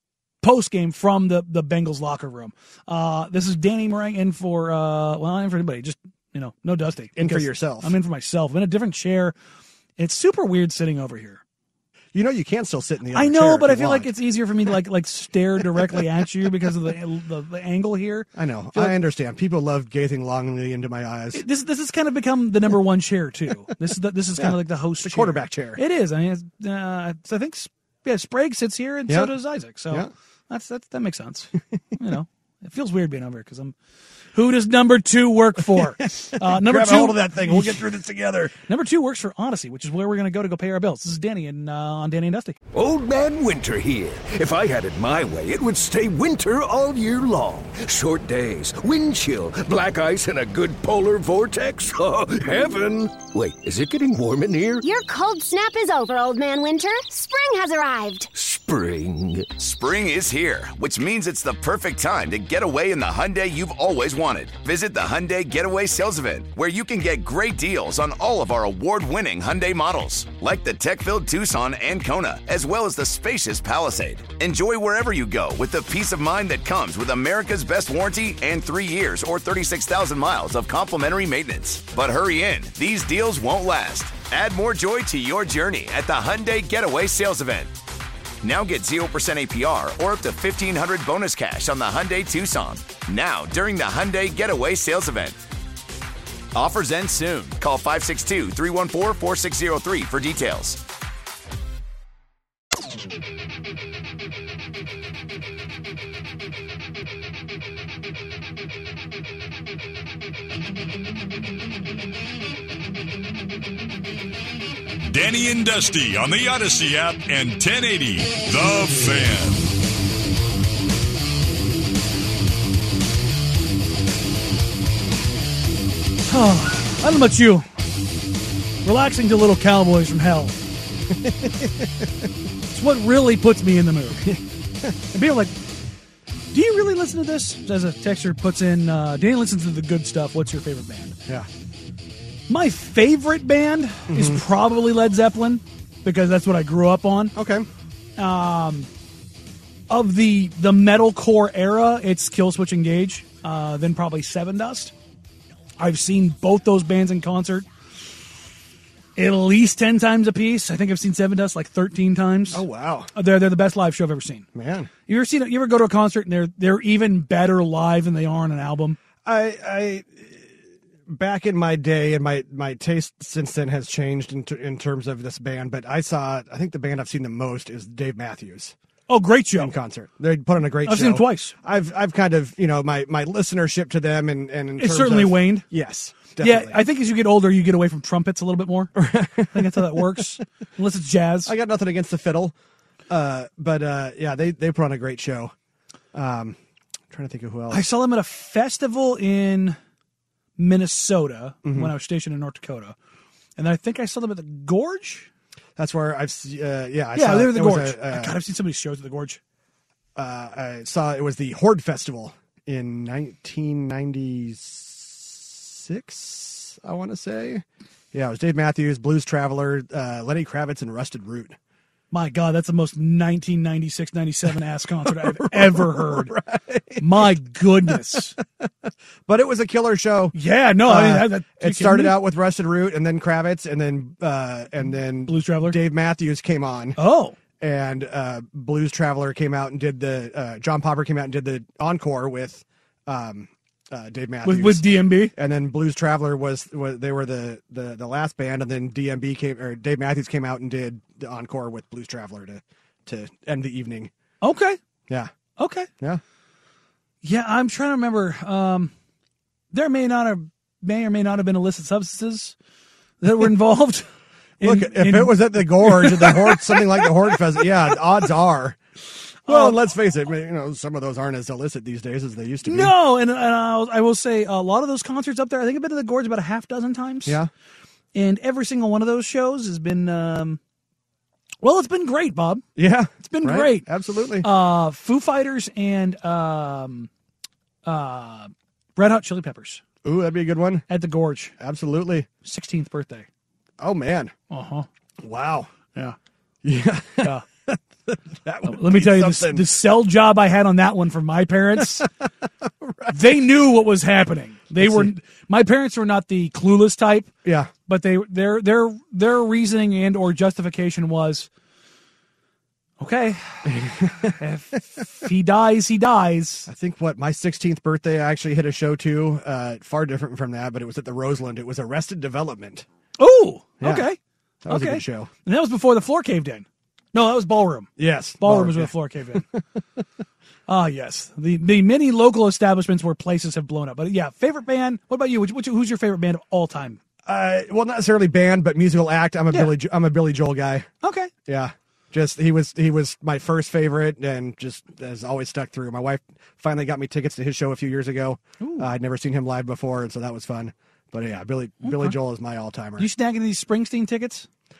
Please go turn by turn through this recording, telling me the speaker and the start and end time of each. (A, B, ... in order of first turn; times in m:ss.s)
0:00.4-0:09.3 A
0:07.2-0:07.9 B
0:10.0-0:11.4 A
0:12.1-0:14.1 B
0:13.1-0:19.0 A
0:18.4-0:21.4 B
0:21.3-0:33.7 A
0:24.4-0:25.8 B
0:29.1-0:29.3 B
0:34.3-0:37.8 A
0:35.7-0:38.5 B
0:38.7-0:42.6 A
0:42.7-0:54.8 C
0:54.8-0:58.3 D
0:58.3-0:59.5 C
0:59.6-1:27.7 E
1:28.4-1:35.4 E
1:36.5-1:40.8 E
1:55.0-1:59.7 F
2:06.3-2:07.7 A
2:08.8-2:10.6 A
2:11.1-2:12.0 B
2:12.7-2:14.3 A
2:14.2-2:14.9 B
2:15.1-2:15.5 A
2:16.5-2:21.1 A
2:22.5-2:27.3 A
2:24.1-2:24.4 B
2:27.3-2:27.7 B
2:28.2-2:28.9 A
2:29.9-2:34.9 A
2:35.8-2:37.6 A
2:39.2-2:42.6 A
2:42.5-2:43.1 B
2:43.1-2:44.4 A
2:44.5-2:44.9 B
2:45.1-2:49.0 A
2:49.2-2:50.5 B
2:51.1-2:58.7 B
2:59.1-2:59.7 A
2:59.6-3:06.8 B
3:00.8-3:01.5 A
3:04.8-3:05.6 A
3:06.4-3:08.9 A
3:09.0-3:10.2 B
3:09.5-3:11.5 A
3:11.4-3:12.5 B
3:13.1-3:15.5 B
3:16.1-3:16.6 B
3:17.1-3:17.8 B
3:17.7-3:19.8 A
3:20.6-3:22.9 A
3:21.6-3:21.9 B
3:23.6-3:25.3 A
3:25.8-3:28.4 B
3:27.1-3:29.4 A
3:30.2-3:41.6 B
3:42.1-3:46.3 A
3:45.0-3:47.3 B
3:47.0-3:48.4 A
3:47.9-3:57.0 B
3:50.3-3:52.2 A
3:55.2-3:55.8 A
3:57.0-3:57.4 A
3:57.6-4:14.1 B
4:04.4-4:05.3 A
4:14.4-4:14.8 A
4:15.6-4:15.9 A
4:17.2-4:18.9 A
4:19.7-4:22.5 A
4:23.2-4:24.1 A
4:24.6-4:27.3 A
4:24.6-4:28.8 B
4:29.4-4:29.8 A
4:29.4-4:32.9 B
4:32.6-4:37.4 A
4:37.2-4:37.5 B
4:38.1-4:40.6 A
4:41.6-4:42.6 A
4:42.8-4:44.5 B
4:43.2-4:43.9 A
4:44.4-4:47.1 A
4:47.8-4:49.8 A
4:50.0-4:50.8 B
4:50.9-4:51.5 A
4:51.6-4:52.3 B
4:52.4-4:53.2 A
4:53.8-4:54.3 B
4:54.5-4:54.9 A
4:55.2-4:55.7 B
4:56.6-4:59.7 B
4:58.6-5:02.1 A
5:02.6-5:03.2 B
5:03.1-5:07.3 A
5:04.8-5:05.1 B
5:07.4-5:07.7 B
5:07.9-5:11.5 A
5:13.0-5:13.7 A
5:13.6-5:14.4 B
5:14.4-5:16.7 A
5:16.7-5:22.8 B
5:23.2-5:24.2 A
5:23.8-5:24.1 B
5:24.6-5:25.3 B
5:24.7-5:29.4 A
5:28.0-5:29.6 B
5:30.7-5:37.0 A
5:37.2-5:40.9 B
5:41.0-5:41.3 A
5:41.4-5:53.1 B
5:48.6-5:48.9 A
5:51.8-5:52.2 A
5:53.0-5:54.5 A